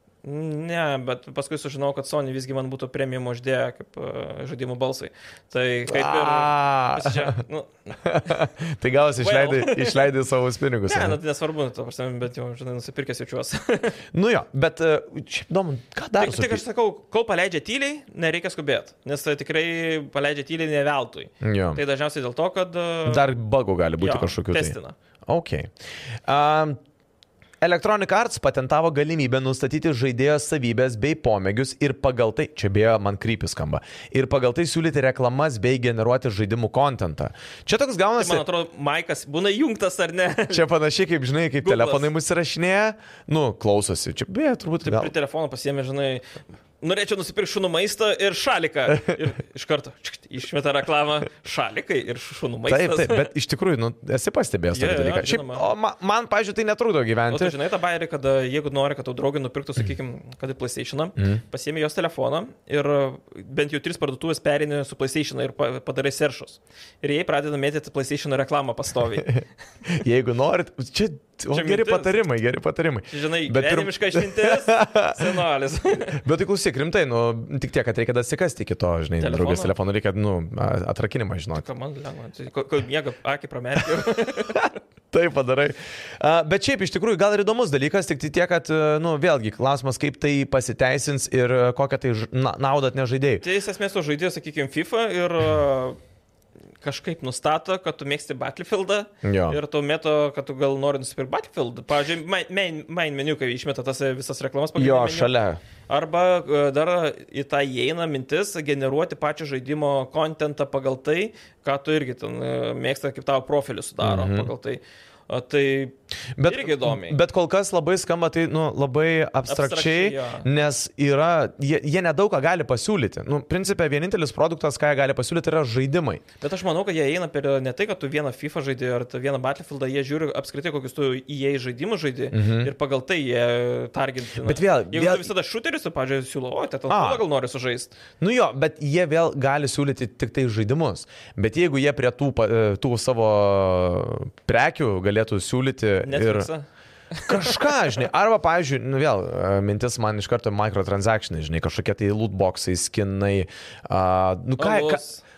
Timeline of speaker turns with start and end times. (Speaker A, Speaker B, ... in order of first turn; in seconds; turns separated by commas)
Speaker A: 0.2-8.4, Speaker B: 5.9-7.3, Speaker B: 8.0-11.2, Speaker A: 9.2-10.0, Speaker A: 10.8-13.9, Speaker B: 14.1-16.6, Speaker A: 16.2-23.3, Speaker B: 21.4-21.8, Speaker B: 23.1-25.7, Speaker A: 24.0-24.9, Speaker B: 26.2-26.8, Speaker B: 27.6-38.4, Speaker A: 38.2-40.6, Speaker B: 40.5-45.1, Speaker A: 41.6-42.1, Speaker A: 44.8-46.2, Speaker A: 46.8-53.3, Speaker B: 52.7-57.5, Speaker A: 54.7-55.6, Speaker A: 57.3-69.3, Speaker B: 61.2-61.4, Speaker B: 69.2-75.4, Speaker A: 71.5-72.1, Speaker A: 73.1-76.2, Speaker B: 76.1-81.6, Speaker A: 79.2-79.7, Speaker A: 81.5-84.8, Speaker B: 84.5-93.4, Speaker A: 93.4-96.0, Speaker A: 96.8-105.3, Speaker B: 99.2-99.6, Speaker B: 104.8-105.6, Speaker A: 105.9-115.9, Speaker B: 114.0-114.5, Speaker B: 116.3-126.2, Speaker A: 116.5-117.2, Speaker A: 119.5-120.5, Speaker A: 126.4-137.9, Speaker B: 132.3-132.7, Speaker B: 134.4-135.3, Speaker B: 136.9-137.2, Speaker B: 138.2-146.5, Speaker A: 146.0-147.6, Speaker B: 147.2-155.0, Speaker A: 154.6-155.2